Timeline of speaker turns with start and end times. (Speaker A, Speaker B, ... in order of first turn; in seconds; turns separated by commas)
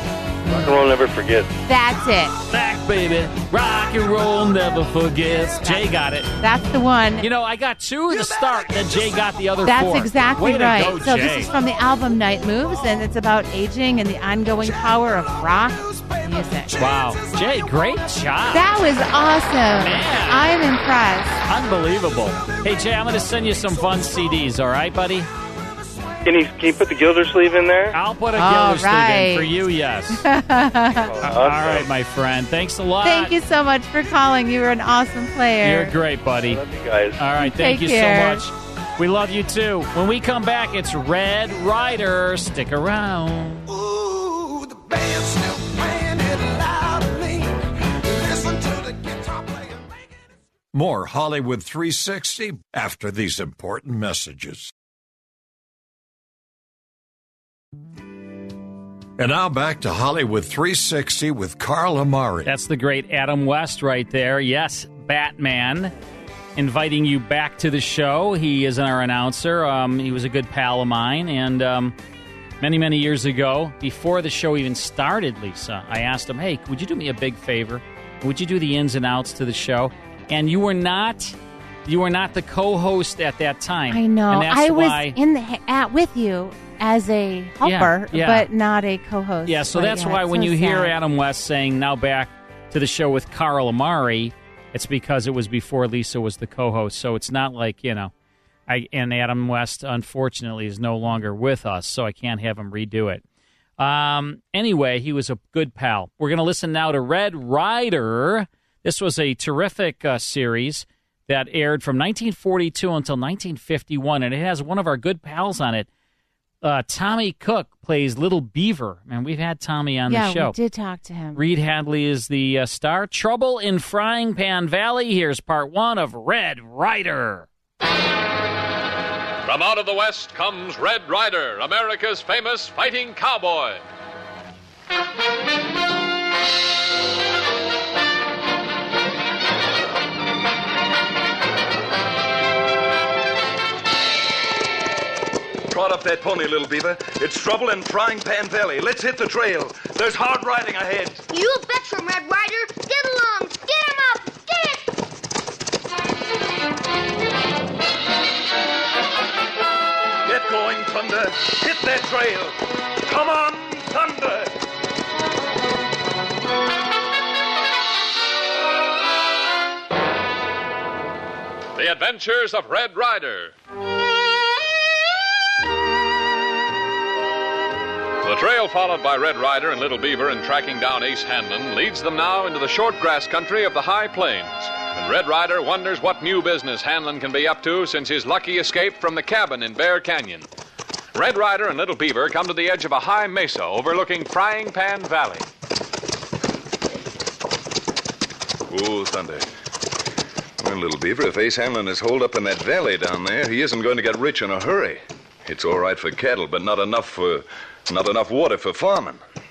Speaker A: 0.5-1.5, Speaker B: 1.6-2.4, Speaker C: 2.5-6.3, Speaker D: 3.6-5.8, Speaker B: 6.4-7.3, Speaker C: 7.2-11.5, Speaker D: 8.1-9.5, Speaker B: 9.7-16.7, Speaker D: 10.8-13.1, Speaker D: 14.6-19.1, Speaker C: 16.8-18.8, Speaker B: 18.5-21.4, Speaker C: 19.8-20.6, Speaker C: 21.5-25.3, Speaker D: 22.1-24.5, Speaker D: 25.5-26.2, Speaker A: 26.2-27.9, Speaker C: 27.9-30.3, Speaker B: 28.4-29.5, Speaker B: 30.1-31.3, Speaker A: 31.0-31.9, Speaker C: 31.2-33.3, Speaker B: 33.0-35.9, Speaker C: 35.6-36.6, Speaker A: 36.5-37.2, Speaker C: 37.2-43.7, Speaker B: 37.4-38.5, Speaker D: 43.7-50.2, Speaker E: 50.7-54.7, Speaker E: 59.2-62.5, Speaker C: 62.5-65.9, Speaker C: 66.6-72.0, Speaker C: 72.6-85.2, Speaker B: 83.9-91.0, Speaker C: 87.6-88.5, Speaker C: 89.5-98.1, Speaker C: 98.7-103.2, Speaker C: 103.8-115.9, Speaker C: 116.6-120.6, Speaker B: 120.1-121.4, Speaker C: 121.3-127.5, Speaker F: 129.4-133.8, Speaker G: 145.7-151.2, Speaker H: 151.3-154.9, Speaker G: 160.3-164.5, Speaker F: 171.8-173.5, Speaker F: 178.2-190.5, Speaker F: 191.1-195.5, Speaker G: 198.7-199.5, Speaker G: 200.6-209.2